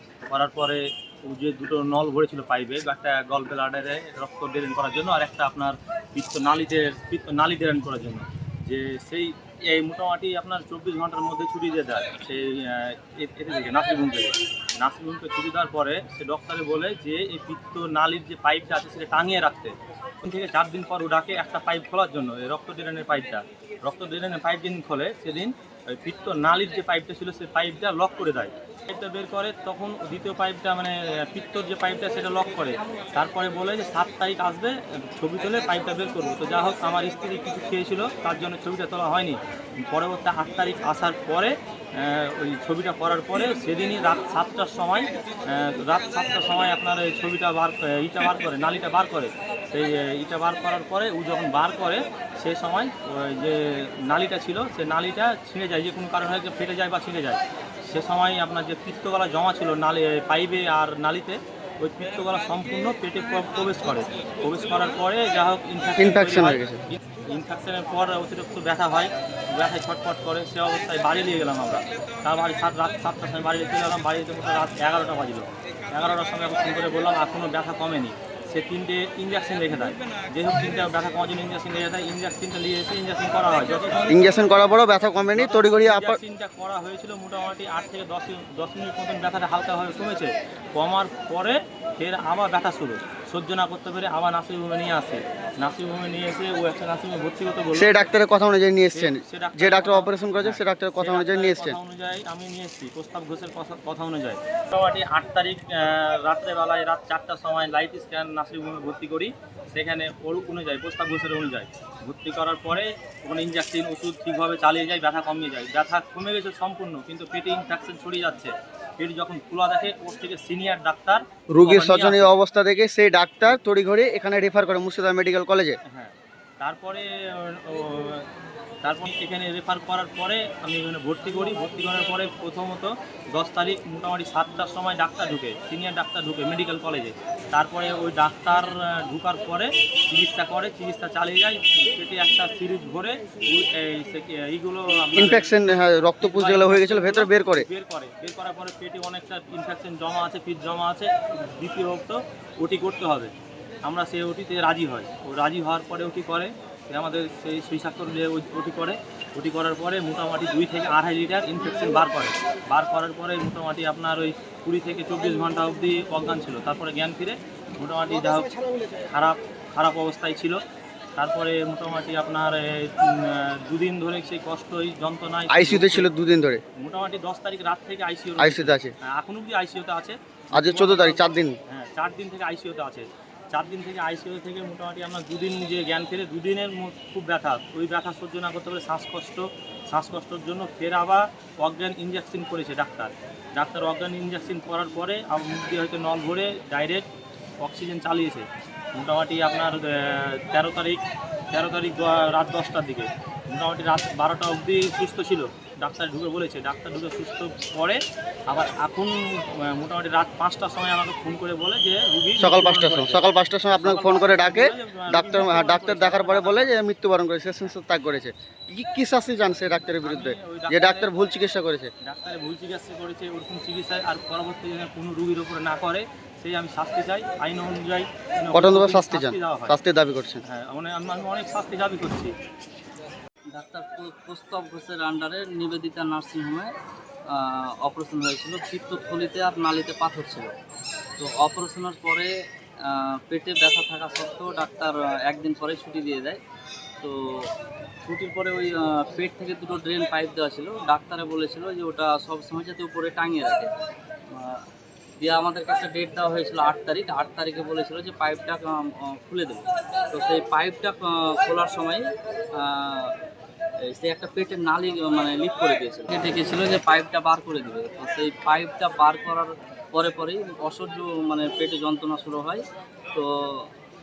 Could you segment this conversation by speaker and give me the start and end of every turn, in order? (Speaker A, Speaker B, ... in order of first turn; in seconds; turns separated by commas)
Speaker A: 0.3-84.2, Speaker B: 66.0-66.8, Speaker B: 84.1-86.2, Speaker A: 85.3-98.1, Speaker B: 97.8-101.8, Speaker A: 98.9-122.3, Speaker B: 121.5-125.8, Speaker A: 125.9-128.3, Speaker A: 128.8-153.3, Speaker B: 145.2-147.7, Speaker A: 153.9-170.6, Speaker A: 171.2-176.1, Speaker B: 175.5-176.6, Speaker A: 176.8-197.1, Speaker B: 178.4-178.9, Speaker B: 180.5-181.6, Speaker A: 197.6-213.3, Speaker B: 212.4-221.9, Speaker A: 213.8-216.8, Speaker A: 220.0-221.1, Speaker A: 222.0-229.8, Speaker B: 228.5-230.4, Speaker A: 230.4-232.3, Speaker C: 233.5-236.7, Speaker C: 237.3-240.5, Speaker C: 241.2-242.3, Speaker C: 242.8-246.4, Speaker C: 247.0-247.5, Speaker C: 248.0-253.7, Speaker C: 254.3-254.6, Speaker C: 255.2-263.2, Speaker C: 263.8-272.6, Speaker C: 273.1-273.7